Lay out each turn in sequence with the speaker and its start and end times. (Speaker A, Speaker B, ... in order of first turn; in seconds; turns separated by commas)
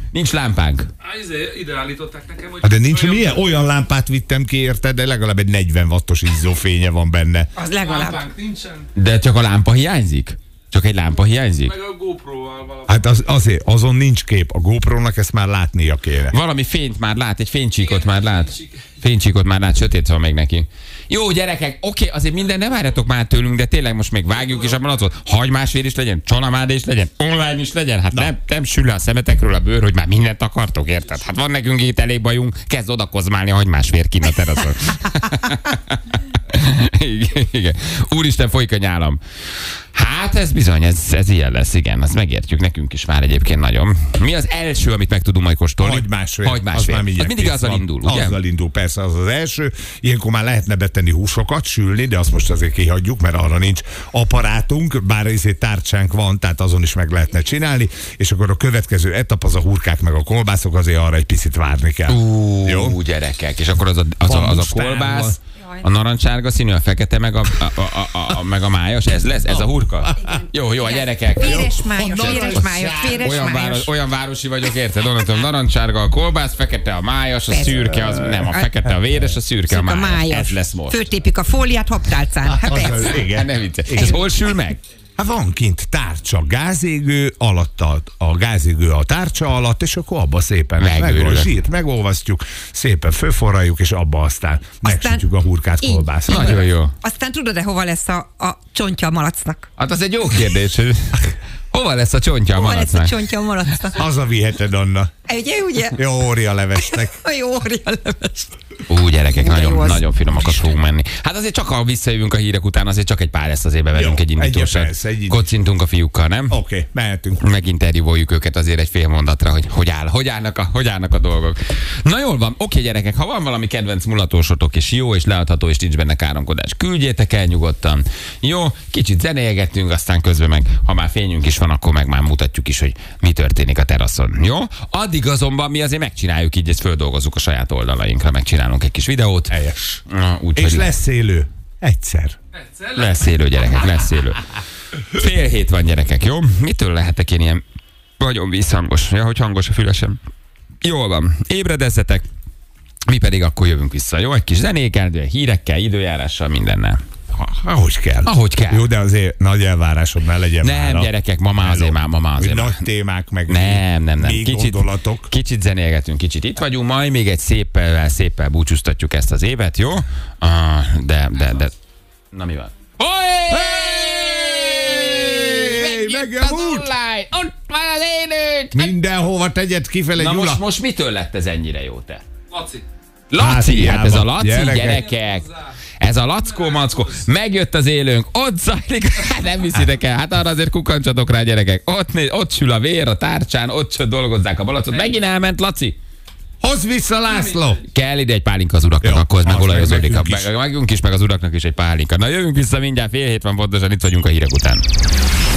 Speaker A: 0.1-0.9, Speaker B: 1.0-3.5, Speaker C: 2.6-7.5, Speaker D: 7.5-8.3, Speaker B: 7.8-8.9, Speaker A: 8.9-11.8, Speaker B: 11.6-13.2, Speaker C: 12.9-16.3, Speaker A: 16.3-39.2, Speaker B: 18.0-18.7, Speaker A: 39.9-48.4, Speaker C: 45.8-63.0, Speaker A: 62.1-81.0, Speaker C: 64.2-65.4, Speaker C: 69.5-70.4, Speaker D: 70.3-73.9, Speaker C: 71.4-73.4, Speaker D: 77.5-78.7, Speaker D: 79.7-83.2, Speaker C: 82.5-84.2, Speaker A: 83.0-84.8, Speaker D: 83.9-84.2, Speaker C: 85.2-96.6, Speaker A: 90.8-91.5, Speaker D: 94.8-95.2, Speaker D: 95.8-99.7, Speaker A: 96.3-96.9, Speaker A: 99.8-103.2, Speaker D: 102.5-104.0, Speaker C: 103.9-105.1, Speaker D: 105.3-106.0, Speaker C: 106.0-107.2, Speaker D: 106.8-108.5, Speaker A: 108.9-116.5, Speaker D: 109.3-110.6, Speaker C: 113.9-115.5, Speaker C: 116.5-117.4, Speaker A: 117.4-140.9, Speaker C: 139.5-140.0, Speaker C: 140.5-142.4, Speaker B: 142.5-143.1, Speaker A: 142.9-144.4, Speaker A: 145.1-147.6, Speaker A: 148.2-150.2, Speaker A: 150.8-152.3, Speaker A: 153.1-157.0, Speaker C: 157.3-165.3, Speaker A: 158.2-158.9, Speaker A: 160.6-162.8, Speaker A: 163.5-171.8, Speaker A: 172.3-178.9, Speaker C: 173.5-176.9, Speaker C: 178.7-180.6, Speaker A: 180.2-182.2, Speaker B: 182.5-182.8, Speaker A: 183.3-196.0, Speaker C: 183.4-185.0, Speaker C: 196.6-197.8, Speaker A: 197.9-204.8, Speaker C: 199.0-200.5